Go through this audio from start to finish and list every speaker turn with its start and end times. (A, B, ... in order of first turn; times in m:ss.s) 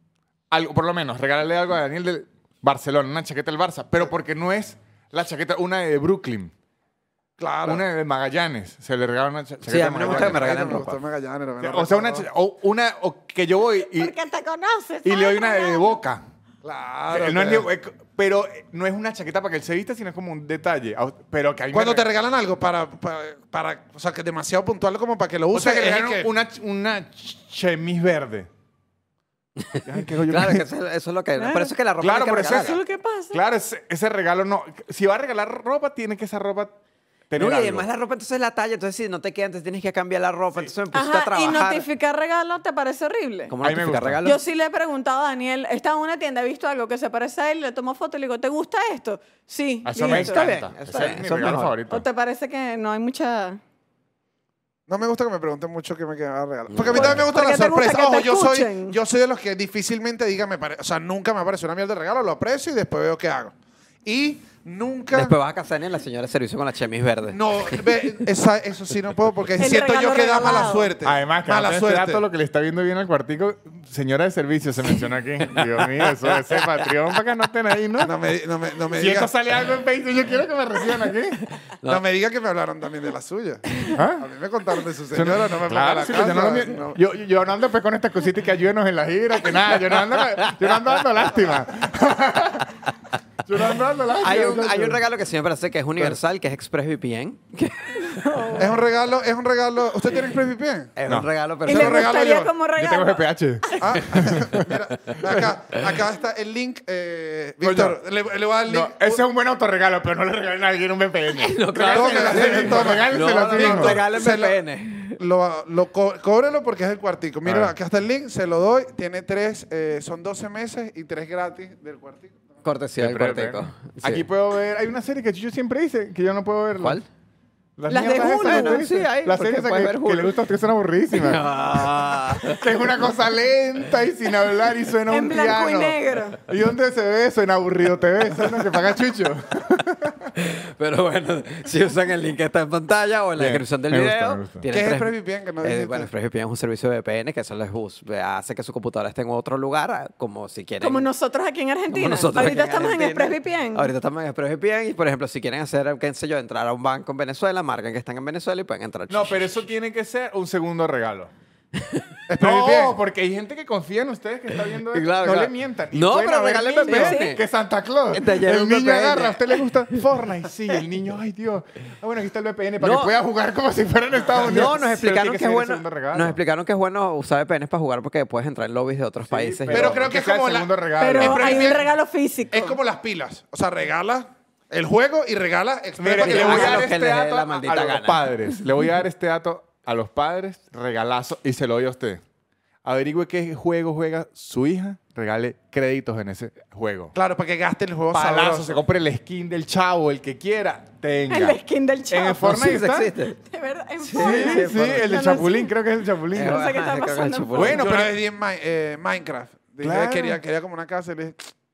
0:00.5-0:06.5 A
0:07.4-0:07.8 B
0:07.6-0:10.8 A
0:09.6-0:11.0 C
0:10.0-0:12.3 B
0:11.6-0:14.1 A
0:13.8-0:16.0 D
0:15.0-0:16.2 A
0:16.6-0:17.7 B
0:17.1-0:22.1 A
0:21.7-0:26.3 B
0:25.5-0:28.5 A
0:29.6-0:32.8 C
0:29.8-0:30.6 A
0:31.4-0:31.7 D
0:32.0-0:32.8 A
0:32.5-0:33.4 D
0:33.3-0:36.7 A
0:37.3-0:37.9 A
0:37.4-0:41.8 C
0:40.9-0:43.5 D
0:43.5-0:44.4 C
0:43.6-0:44.2 A
0:44.2-0:50.5 D
0:49.8-0:52.0 A
0:50.0-0:51.8 C
0:51.9-0:53.6 D
0:54.9-1:05.4 B
0:56.7-0:57.2 C
0:56.9-0:59.0 D
1:05.1-1:08.1 C
1:07.3-1:12.2 B
1:09.6-1:10.9 D
1:11.0-1:18.2 A
1:18.0-1:19.3 B
1:18.9-1:21.4 A
1:21.9-1:27.0 B
1:23.9-1:24.2 A
1:25.1-1:32.7 A
1:33.5-1:35.0 A
1:34.2-1:38.4 C
1:38.0-1:38.8 D
1:38.6-1:40.9 B
1:41.0-1:42.1 C
1:41.7-1:42.5 B
1:41.7-1:44.0 D
1:42.8-1:45.4 A
1:43.8-1:49.2 B
1:47.6-1:48.0 A
1:48.7-1:54.0 A
1:51.3-1:55.2 C
1:51.8-2:02.5 B
1:57.4-1:57.7 A
2:02.6-2:04.2 C
2:03.0-2:07.0 A
2:07.8-2:20.3 A
2:07.9-2:08.9 D
2:08.4-2:10.3 C
2:11.1-2:12.6 C
2:15.1-2:16.4 D
2:20.4-2:31.1 C
2:23.4-2:24.6 A
2:24.7-2:26.1 B
2:30.8-2:33.9 D
2:31.9-2:39.4 C
2:39.1-2:41.3 A
2:41.8-2:42.0 C
2:42.3-2:43.0 B
2:42.4-2:56.4 A
2:44.9-2:47.4 C
2:46.8-2:47.4 D
2:48.1-2:49.6 C
2:52.8-2:53.1 C
2:54.4-3:00.0 C
2:59.3-3:01.8 A
2:59.7-3:01.9 B
3:01.0-3:02.8 D
3:02.5-3:06.9 B
3:06.0-3:12.2 A
3:06.2-3:08.3 C
3:12.8-3:17.2 A
3:17.1-3:18.8 B
3:18.1-3:21.6 A
3:21.3-3:22.6 D
3:22.1-3:23.1 A
3:22.4-3:23.4 C
3:23.4-3:25.7 D
3:24.0-3:25.2 C
3:24.2-3:26.7 A
3:26.3-3:27.8 C
3:26.4-3:27.8 D
3:27.5-3:28.1 A
3:27.8-3:31.4 B
3:29.8-3:30.4 A